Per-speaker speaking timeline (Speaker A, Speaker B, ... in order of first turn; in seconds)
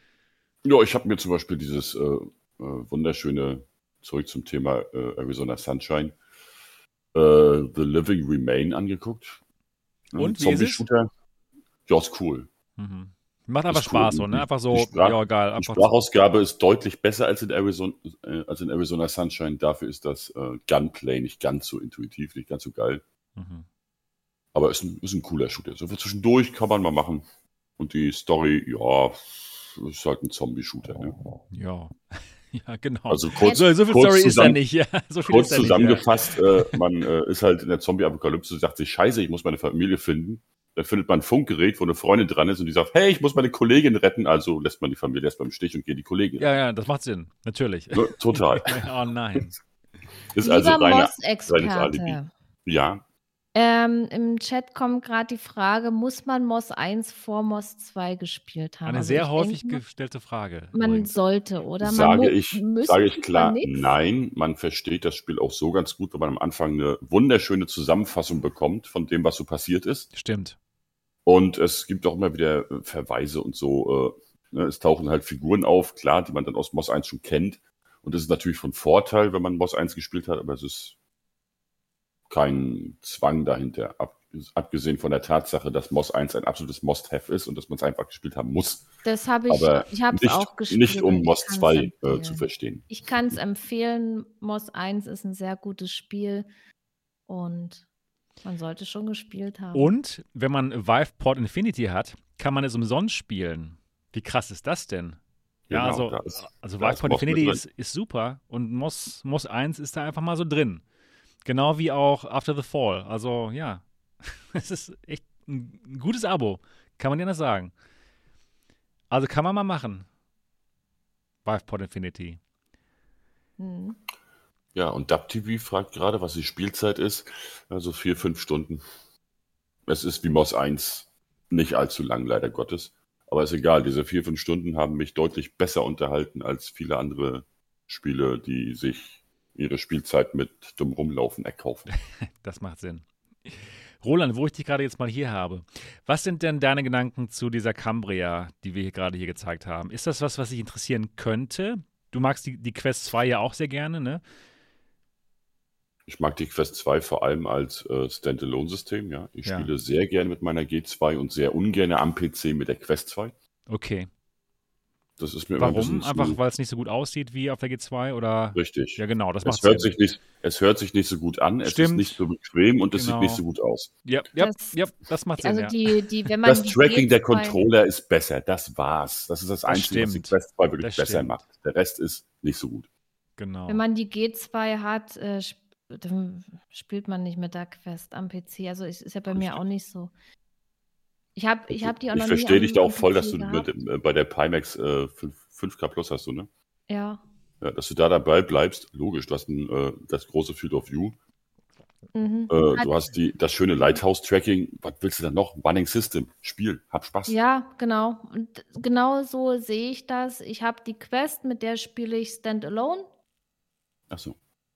Speaker A: 0.6-6.2, 7.1-9.4, 10.1-11.1, 11.9-12.5, 13.7-23.0, 24.5-27.3, 27.8-31.1, 33.1-34.6, 35.2-46.5, 47.9-49.5, 50.3-53.0, 61.8-70.1, 71.3-81.0, 82.3-88.9, 89.5-93.3, 105.7-107.6, 124.7-128.8, 129.9-141.9, 156.1-163.3, 165.2-166.4, 168.6-173.9, 176.4-182.9, 189.3-189.6, 191.7-196.5, 197.6-201.2, 202.5-207.3, 214.1-214.4
Speaker B: 10.2-10.8, 12.8-15.9, 23.4-23.6, 31.5-31.9, 32.5-36.8, 46.4-49.5, 58.9-61.1, 70.1-70.6, 99.7-105.2, 105.7-110.8, 111.4-117.7, 119.1-120.1, 121.4-122.4, 142.4-154.2, 163.7-164.1, 165.6-169.9, 171.6-172.2, 172.9-173.4, 174.1-176.1, 179.7-181.4, 183.4-183.8
Speaker C: 50.4-52.3, 53.5-59.8, 60.7-63.9, 89.0-96.5, 97.3-97.8, 98.4-99.9, 123.6-124.0, 174.4-174.8, 175.4-177.6, 183.7-190.1, 191.4-193.7, 196.9-197.2, 202.1-202.9, 207.3-213.1